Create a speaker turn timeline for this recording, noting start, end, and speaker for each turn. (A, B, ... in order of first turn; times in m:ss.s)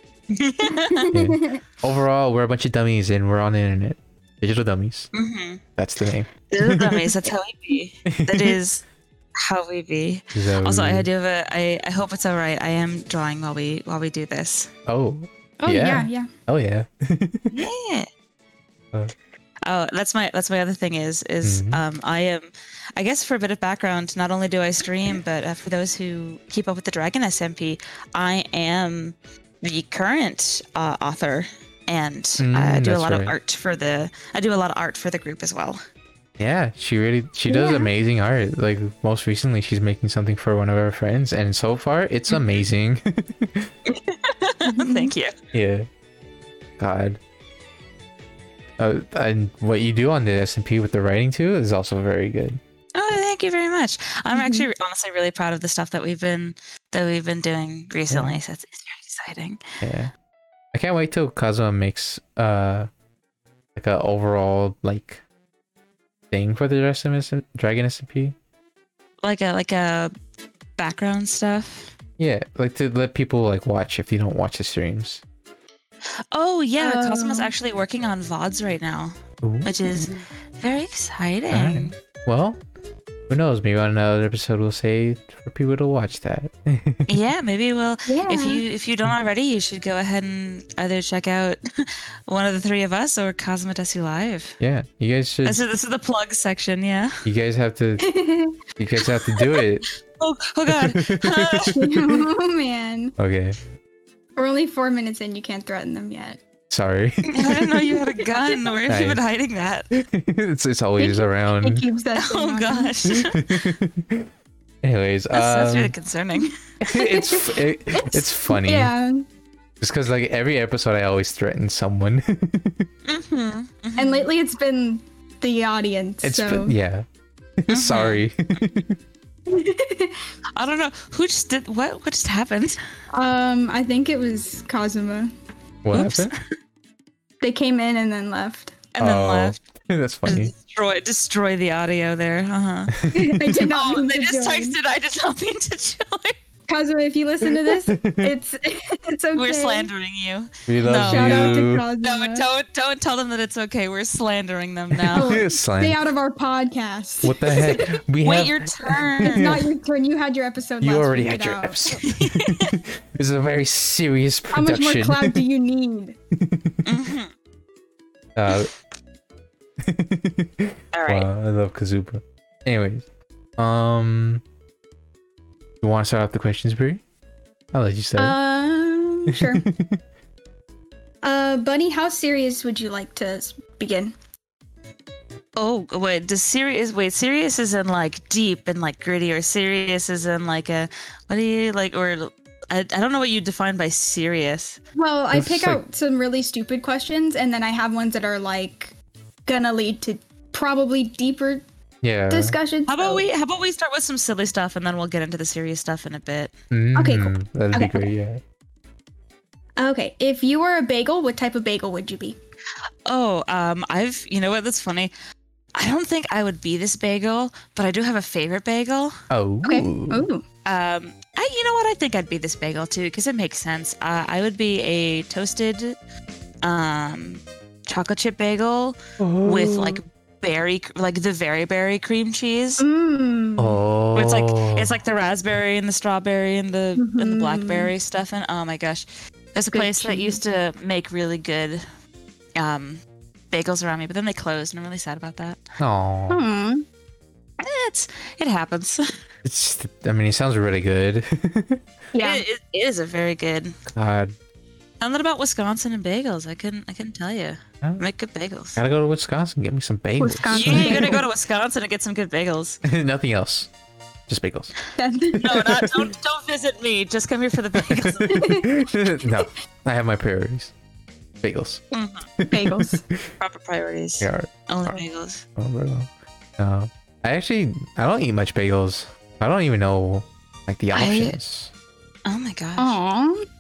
0:00.3-0:01.1 A
0:00.7-0:01.6 B
0:01.1-0:05.1 C
0:05.1-0:05.6 A
0:05.8-0:07.1 C
0:06.5-0:08.8 A
0:08.1-0:08.6 C
0:09.4-0:14.7 A
0:10.3-0:11.1 C
0:14.9-0:17.5 C
0:15.6-0:16.3 B
0:17.5-0:18.1 A
0:19.7-0:35.8 A
0:21.4-0:21.8 C
0:32.4-0:33.4 C
0:36.4-0:43.7 C
0:37.5-0:37.9 B
0:42.3-0:42.7 A
0:43.9-0:45.3 A
0:44.7-0:45.1 B
0:45.5-0:45.9 C
0:46.8-0:47.2 C
0:48.8-0:52.6 C
0:53.0-0:59.6 A
0:54.3-0:54.7 B
0:58.1-0:58.4 C
0:59.8-1:00.1 C
1:00.7-1:02.9 C
1:03.8-1:05.2 C
1:06.3-1:08.4 C
1:09.2-1:10.1 A
1:10.8-1:12.0 A
1:12.2-1:15.2 C
1:16.3-1:22.0 A
1:16.8-1:17.5 B
1:19.4-1:20.2 C
1:21.5-1:22.6 C
1:23.3-1:27.1 C
1:27.1-1:34.6 A
1:28.1-1:28.6 B
1:34.6-1:35.6 C
1:35.4-1:37.2 A
1:37.2-1:38.1 C
1:38.0-1:38.6 B
1:38.8-1:39.9 C
1:40.2-1:41.8 A
1:40.7-1:42.2 C
1:41.8-1:43.2 B
1:43.2-1:43.6 C
1:44.4-1:46.4 B
1:46.7-1:47.6 C
1:47.3-1:49.9 A
1:47.9-1:48.3 B
1:48.9-1:49.2 C
1:49.9-1:51.8 C
1:51.0-1:53.0 B
1:52.2-1:53.7 A
1:53.1-1:54.3 C
1:54.8-1:55.9 C
1:55.3-1:56.5 A
1:56.4-1:59.3 B
1:56.8-1:58.9 C
1:59.8-2:02.9 C
2:03.0-2:04.3 A
2:04.0-2:06.8 B
2:06.2-2:07.0 C
2:07.6-2:09.0 C
2:07.7-2:08.2 A
2:09.5-2:10.2 B
2:10.6-2:12.8 A
2:13.1-2:15.3 B
2:15.8-2:16.3 C
2:15.9-2:16.4 A
2:17.4-2:18.8 B
2:19.0-2:19.6 A
2:19.0-2:20.5 C
2:20.3-2:26.4 A
2:23.0-2:23.4 C
2:23.1-2:24.8 B
2:26.7-2:29.9 B
2:27.4-2:28.3 C
2:29.3-2:35.4 A
2:30.7-2:31.9 C
2:30.9-2:32.6 B
2:34.9-2:36.0 C
2:35.1-2:38.0 B
2:37.2-2:39.5 C
2:37.7-2:39.6 A
2:39.2-2:41.8 B
2:40.8-2:45.5 C
2:41.9-2:42.8 A
2:44.5-2:46.2 B
2:46.3-2:46.8 C
2:46.9-2:47.3 A
2:48.4-2:48.7 C
2:49.8-2:53.0 C
2:50.9-2:51.3 A
2:53.6-2:54.4 C
2:55.8-2:57.0 C
2:57.7-2:58.4 C
2:58.2-2:59.7 B
2:59.3-3:00.0 C
3:01.2-3:04.2 B
3:05.6-3:14.8 A
3:15.0-3:18.9 B
3:15.3-3:15.8 C
3:19.5-3:21.6 B
3:22.0-3:22.6 C
3:22.3-3:23.2 B
3:22.9-3:26.5 A
3:26.7-3:28.4 C
3:27.0-3:28.1 B
3:29.8-3:32.4 B
3:33.1-3:35.1 A
3:35.8-3:39.2 A
3:39.3-3:40.3 C
3:39.6-3:40.4 B
3:40.6-3:46.0 A
3:46.6-3:52.8 A
3:49.2-3:50.0 C
3:52.8-3:53.8 B
3:53.6-3:55.0 C
3:54.2-4:01.8 A
3:57.0-3:57.9 B
3:59.7-4:00.4 B
4:02.6-4:05.6 A
4:05.8-4:06.4 C
4:06.3-4:06.8 B
4:07.6-4:09.0 A
4:09.4-4:11.8 C
4:12.1-4:12.4 B
4:12.2-4:13.8 A
4:13.9-4:14.4 C
4:15.0-4:18.8 A
4:18.8-4:21.2 C
4:20.2-4:21.3 B
4:20.5-4:22.8 A
4:22.8-4:23.7 C
4:24.3-4:24.8 C
4:25.0-4:25.8 B
4:25.4-4:28.4 A
4:25.5-4:25.9 C
4:27.7-4:30.7 C
4:28.3-4:29.3 B
4:31.4-4:31.8 C
4:31.9-4:32.3 A
4:32.4-4:33.3 C
4:32.5-4:33.0 B
4:33.4-4:35.4 A
4:34.2-4:35.0 C
4:35.6-4:41.7 C
4:40.9-4:41.4 A
4:42.3-4:43.0 A
4:42.8-4:43.5 B